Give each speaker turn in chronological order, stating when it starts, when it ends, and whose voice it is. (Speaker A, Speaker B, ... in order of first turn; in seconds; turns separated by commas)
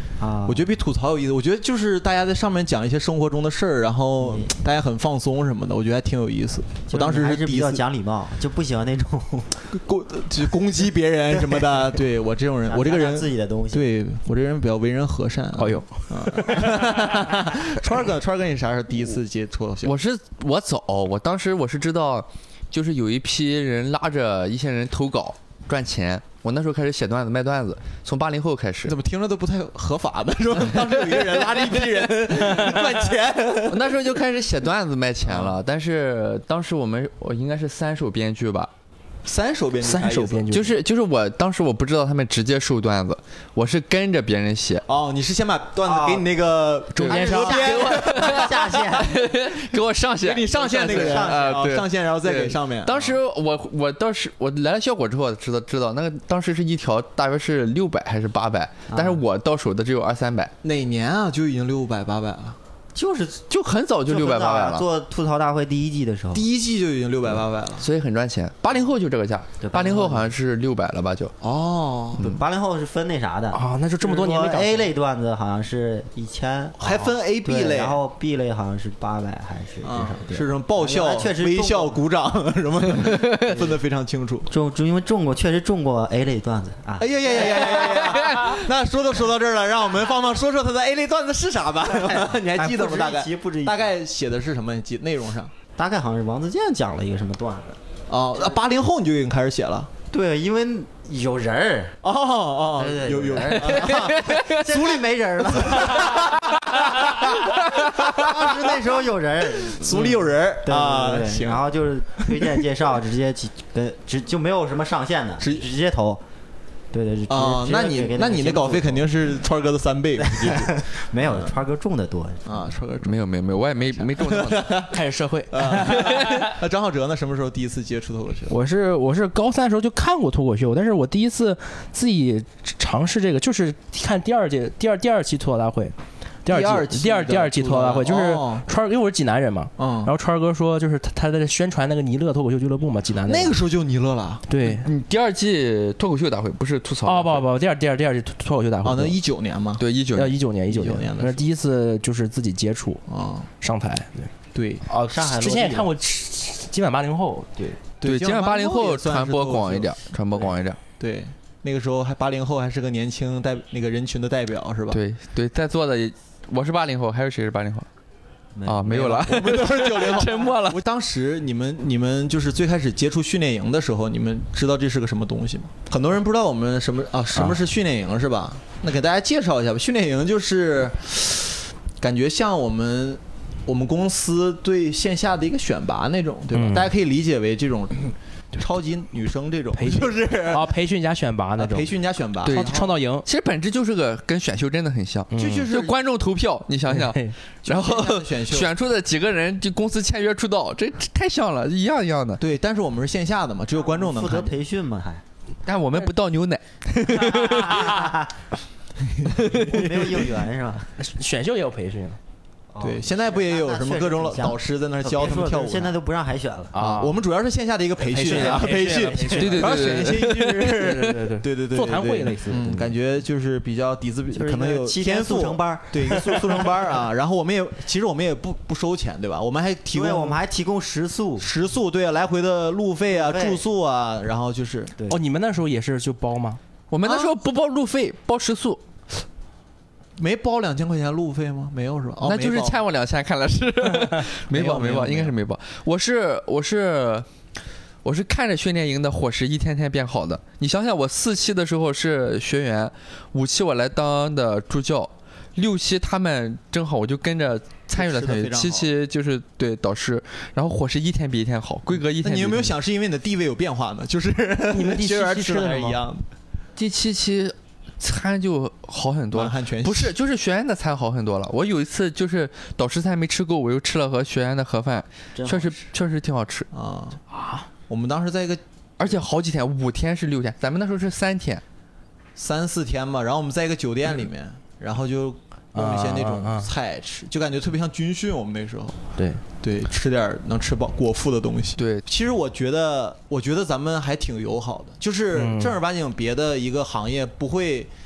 Speaker A: 0.2-0.7, Speaker B: 0.5-7.8, Speaker A: 6.9-9.6, Speaker B: 9.7-20.0, Speaker A: 11.4-11.8, Speaker A: 12.7-13.9, Speaker C: 15.6-17.1, Speaker D: 19.8-28.9, Speaker B: 28.9-33.9, Speaker D: 33.7-38.7, Speaker B: 35.2-35.6, Speaker B: 39.2-40.5, Speaker C: 39.8-40.8, Speaker D: 40.5-44.8, Speaker B: 44.9-48.5, Speaker A: 45.8-46.3, Speaker C: 47.0-47.6, Speaker A: 47.1-49.2, Speaker D: 47.1-60.5, Speaker B: 50.2-53.2, Speaker C: 50.9-51.3, Speaker A: 58.9-59.2, Speaker B: 60.6-62.6, Speaker A: 62.9-63.4, Speaker D: 63.5-64.8, Speaker A: 64.1-66.4, Speaker B: 66.3-67.9, Speaker D: 67.8-71.3, Speaker A: 69.6-70.2, Speaker B: 71.4-72.4, Speaker A: 72.2-82.0, Speaker C: 73.5-74.9, Speaker B: 76.8-78.0, Speaker B: 79.8-84.5, Speaker D: 83.0-83.5, Speaker A: 83.5-83.8, Speaker A: 84.5-88.3, Speaker B: 87.0-95.5, Speaker D: 88.1-88.6, Speaker A: 91.9-93.9, Speaker A: 95.8-97.8, Speaker B: 98.1-99.9, Speaker A: 100.1-102.0, Speaker B: 102.0-105.0, Speaker A: 102.8-106.9, Speaker D: 103.7-104.6, Speaker B: 105.5-107.4, Speaker A: 107.5-116.2, Speaker D: 107.5-108.2, Speaker B: 108.2-108.7, Speaker B: 109.7-111.7, Speaker B: 112.2-112.5, Speaker B: 115.4-115.7, Speaker A: 116.9-119.1, Speaker B: 117.3-121.5, Speaker A: 120.2-122.6, Speaker B: 122.5-123.2, Speaker D: 123.0-124.9, Speaker B: 124.1-125.0, Speaker C: 124.9-126.5, Speaker B: 125.5-128.6, Speaker C: 128.5-143.5, Speaker B: 136.5-138.6, Speaker B: 139.8-140.1, Speaker B: 143.2-144.4, Speaker C: 144.5-144.9, Speaker D: 144.7-147.4, Speaker C: 147.0-149.2, Speaker B: 148.8-149.8, Speaker D: 149.8-150.4, Speaker C: 150.1-153.0, Speaker B: 150.6-151.4, Speaker B: 153.1-153.5, Speaker C: 153.6-154.3, Speaker B: 154.5-154.8, Speaker C: 154.8-157.8, Speaker A: 155.1-155.9, Speaker B: 158.0-159.9, Speaker D: 158.0-160.8, Speaker B: 161.0-165.0, Speaker D: 164.9-167.8, Speaker A: 168.5-169.3, Speaker D: 168.7-170.8, Speaker B: 168.9-190.7, Speaker C: 186.5-186.9, Speaker C: 189.8-193.2, Speaker B: 191.6-192.9, Speaker D: 192.4-202.4, Speaker C: 195.3-195.7, Speaker B: 195.3-195.9, Speaker C: 196.9-197.3, Speaker B: 197.6-198.7, Speaker B: 202.4-204.5, Speaker A: 203.8-205.2, Speaker D: 205.7-208.1, Speaker A: 207.1-208.3, Speaker D: 209.4-210.2, Speaker A: 209.4-210.9, Speaker C: 211.0-212.2, Speaker A: 212.7-216.7, Speaker B: 212.8-216.0, Speaker C: 216.7-217.2, Speaker B: 216.8-230.4, Speaker C: 218.0-222.9, Speaker A: 218.1-219.8, Speaker D: 219.3-220.7, Speaker A: 224.3-226.9, Speaker A: 229.9-231.5, Speaker B: 231.4-234.9, Speaker A: 233.1-233.6, Speaker C: 235.1-236.6, Speaker D: 236.9-238.8, Speaker B: 237.0-237.3, Speaker B: 240.2-242.8, Speaker D: 242.2-247.3, Speaker B: 244.5-245.3, Speaker D: 248.0-262.7, Speaker B: 257.9-258.9, Speaker B: 261.9-266.2, Speaker C: 264.7-266.0, Speaker D: 266.8-276.7, Speaker B: 269.3-270.1, Speaker A: 275.4-275.8, Speaker B: 276.7-277.2, Speaker C: 277.3-277.6, Speaker B: 277.9-279.2, Speaker D: 279.0-281.6, Speaker B: 282.4-289.0, Speaker C: 285.7-286.7, Speaker C: 289.2-289.4, Speaker B: 289.6-297.9, Speaker D: 291.8-292.0, Speaker C: 295.3-295.8